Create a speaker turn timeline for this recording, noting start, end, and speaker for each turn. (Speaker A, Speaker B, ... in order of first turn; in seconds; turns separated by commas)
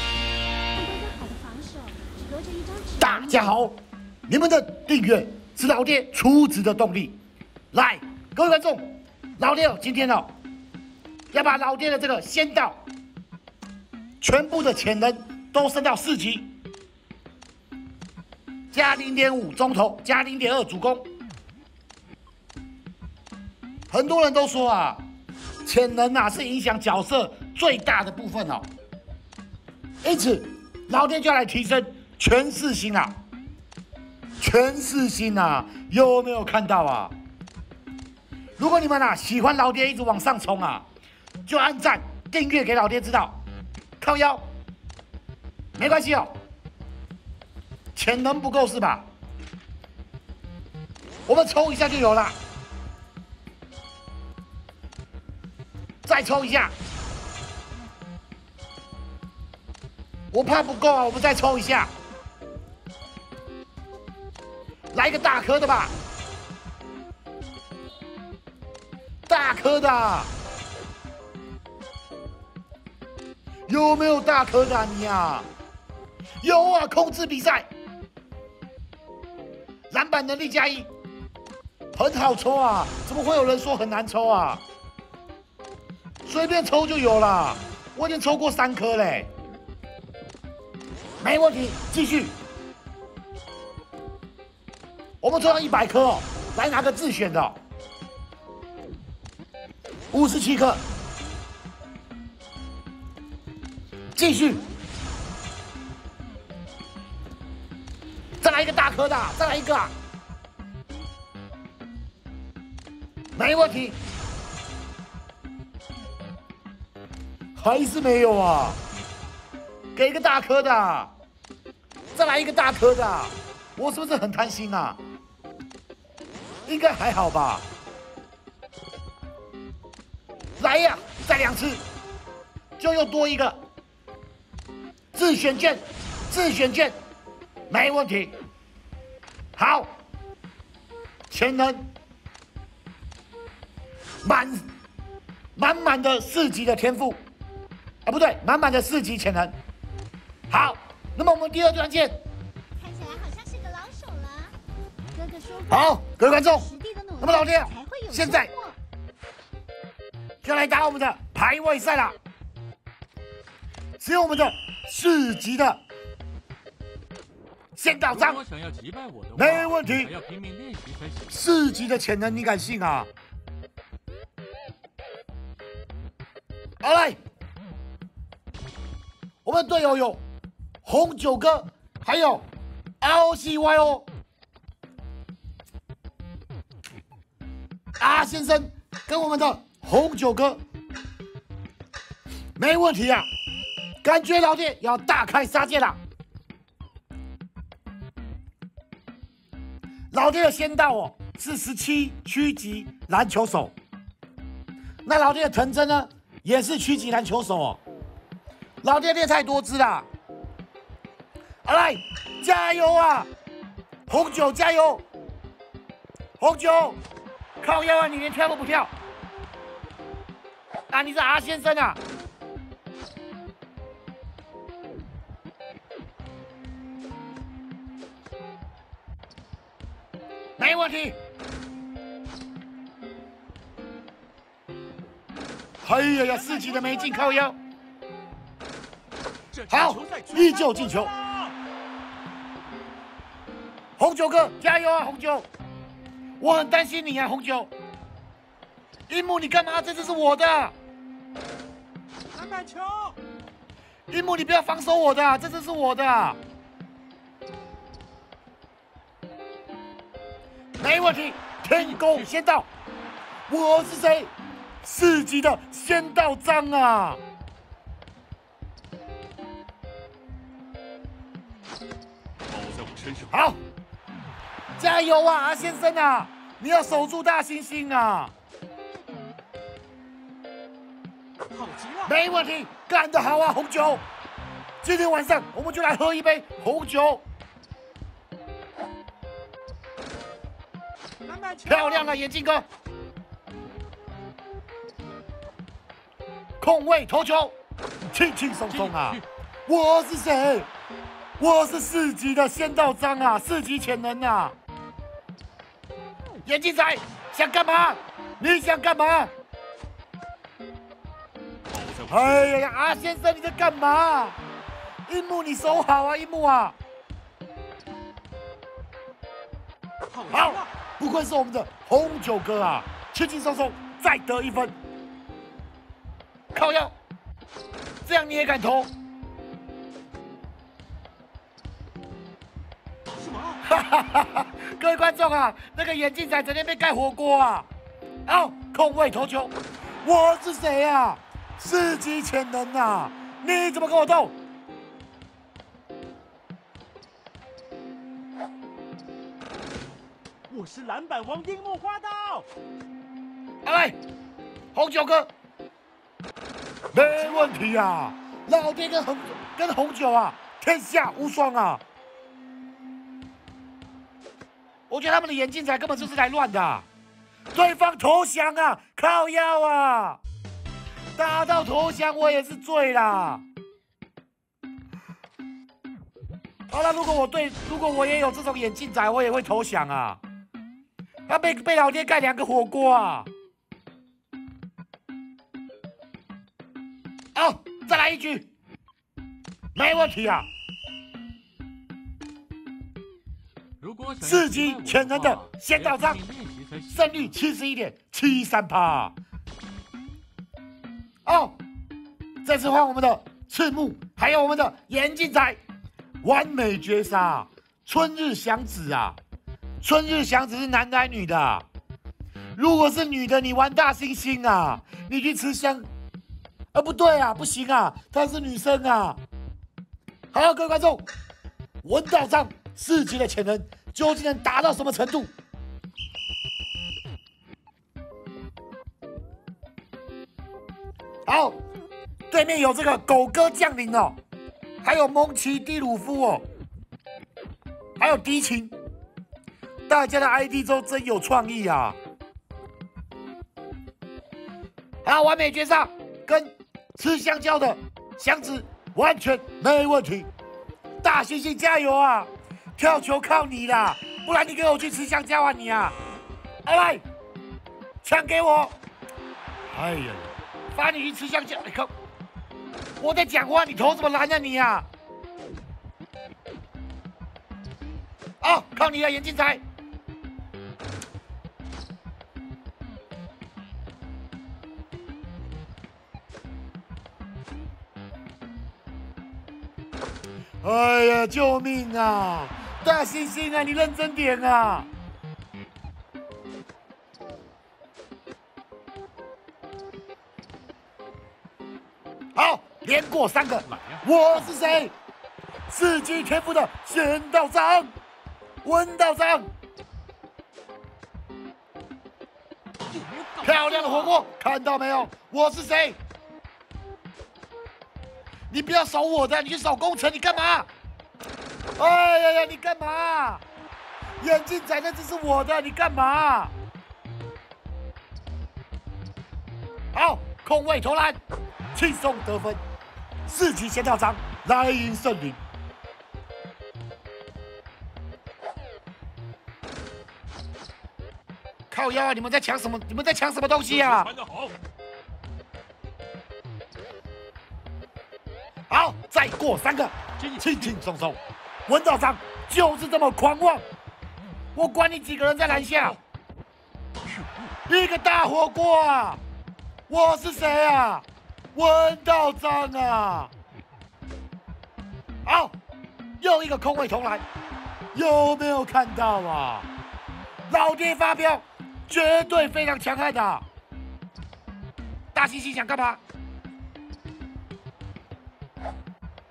Speaker A: 0.8-3.5, Speaker B: 3.0-7.2, Speaker B: 7.7-10.3, Speaker B: 11.3-12.8, Speaker B: 14.2-16.5, Speaker B: 18.7-21.1, Speaker B: 23.9-25.0, Speaker B: 25.6-28.7, Speaker B: 30.0-33.1, Speaker B: 34.4-37.1, Speaker B: 38.6-40.8, Speaker B: 41.5-43.4, Speaker B: 44.0-44.4, Speaker B: 45.8-46.3, Speaker B: 47.9-49.1, Speaker B: 51.3-52.4, Speaker B: 56.0-56.7, Speaker B: 60.3-61.9, Speaker B: 64.9-65.9, Speaker B: 69.3-70.3, Speaker B: 73.7-75.5, Speaker B: 76.4-77.7, Speaker B: 79.9-80.9, Speaker B: 81.9-84.6, Speaker B: 86.2-89.3, Speaker B: 91.2-92.4, Speaker B: 95.2-97.6, Speaker B: 100.1-100.8, Speaker B: 104.1-104.7, Speaker B: 108.4-109.9, Speaker B: 113.3-114.0, Speaker B: 117.5-118.8, Speaker B: 119.9-121.1, Speaker B: 122.1-125.0, Speaker B: 126.7-127.7, Speaker B: 130.6-131.8, Speaker B: 132.8-133.6, Speaker B: 135.1-137.0, Speaker B: 137.7-138.3, Speaker B: 139.6-139.9, Speaker B: 141.3-141.9, Speaker B: 144.2-144.7, Speaker B: 145.5-147.2, Speaker B: 148.0-149.6, Speaker B: 150.5-152.2, Speaker A: 152.8-154.6, Speaker A: 155.1-158.8, Speaker B: 155.7-158.5, Speaker B: 160.4-162.2, Speaker B: 164.0-165.8, Speaker B: 167.7-168.4, Speaker C: 168.1-171.3, Speaker B: 169.3-170.1, Speaker B: 171.3-173.1, Speaker B: 176.8-177.2, Speaker B: 179.4-180.2, Speaker B: 180.8-182.5, Speaker B: 183.0-184.1, Speaker B: 188.0-190.6, Speaker B: 192.6-193.3, Speaker B: 194.0-196.0, Speaker B: 200.1-203.7, Speaker B: 205.0-207.8, Speaker B: 208.8-210.1, Speaker B: 211.6-213.3, Speaker B: 214.1-215.0, Speaker B: 216.4-217.0, Speaker B: 217.6-218.9, Speaker B: 220.9-222.0, Speaker B: 230.6-231.2, Speaker B: 235.8-237.6, Speaker C: 236.5-237.0, Speaker C: 239.5-241.5, Speaker B: 239.7-241.1, Speaker B: 244.0-245.5, Speaker B: 246.4-247.7, Speaker B: 249.1-250.7, Speaker C: 252.3-253.2, Speaker B: 254.1-256.4, Speaker B: 260.8-262.7, Speaker C: 261.7-262.2, Speaker B: 263.5-267.2, Speaker C: 272.5-273.3, Speaker B: 273.3-273.6, Speaker B: 274.8-278.3, Speaker C: 281.5-282.1, Speaker B: 282.0-284.0, Speaker B: 284.8-287.2, Speaker C: 291.2-292.0, Speaker B: 291.6-292.7, Speaker B: 296.6-300.7, Speaker C: 298.7-299.2, Speaker B: 301.4-304.5, Speaker B: 306.4-309.3, Speaker C: 311.7-312.4, Speaker B: 312.1-314.4, Speaker B: 315.1-316.8, Speaker C: 320.1-320.6, Speaker B: 320.3-324.8, Speaker B: 326.5-326.9, Speaker B: 328.0-328.9, Speaker C: 333.2-333.6, Speaker B: 333.6-337.7, Speaker B: 338.2-344.4, Speaker C: 350.5-352.5, Speaker B: 353.6-354.0, Speaker B: 354.7-355.3, Speaker B: 356.9-361.8, Speaker C: 357.1-357.4, Speaker B: 364.9-366.9, Speaker B: 367.5-370.2, Speaker B: 371.2-373.4, Speaker B: 376.7-380.2, Speaker B: 381.3-383.3, Speaker B: 387.3-388.5, Speaker B: 389.7-390.5, Speaker C: 393.8-397.3, Speaker B: 394.2-396.2, Speaker B: 396.9-399.1, Speaker B: 401.2-401.6, Speaker B: 402.4-405.6, Speaker B: 406.2-409.2, Speaker B: 409.8-411.6, Speaker B: 412.5-415.9, Speaker B: 416.7-419.2, Speaker B: 420.3-421.1, Speaker B: 421.8-425.3, Speaker B: 431.2-431.6, Speaker B: 432.3-434.2, Speaker B: 434.8-436.4, Speaker B: 438.0-438.7, Speaker B: 439.9-442.0, Speaker B: 445.0-450.3, Speaker B: 451.0-455.9, Speaker B: 456.6-457.0, Speaker B: 458.0-458.7, Speaker B: 459.7-461.9, Speaker B: 463.0-464.9, Speaker B: 468.4-469.6, Speaker B: 480.6-484.9, Speaker B: 492.3-494.9, Speaker C: 493.6-494.0, Speaker B: 495.7-497.9, Speaker B: 498.6-499.5, Speaker C: 502.9-504.2, Speaker B: 503.4-506.0, Speaker B: 508.5-510.7, Speaker B: 511.8-513.4, Speaker B: 514.2-516.5, Speaker B: 519.9-521.2, Speaker B: 521.7-522.6, Speaker B: 523.3-525.4, Speaker B: 531.7-534.1, Speaker C: 533.9-534.5, Speaker B: 538.7-543.6, Speaker C: 540.2-540.7, Speaker B: 544.5-546.0, Speaker B: 547.7-549.2, Speaker B: 549.9-553.3, Speaker B: 555.2-555.5, Speaker B: 556.2-557.2, Speaker B: 557.9-559.7, Speaker B: 560.5-563.5, Speaker B: 565.1-566.0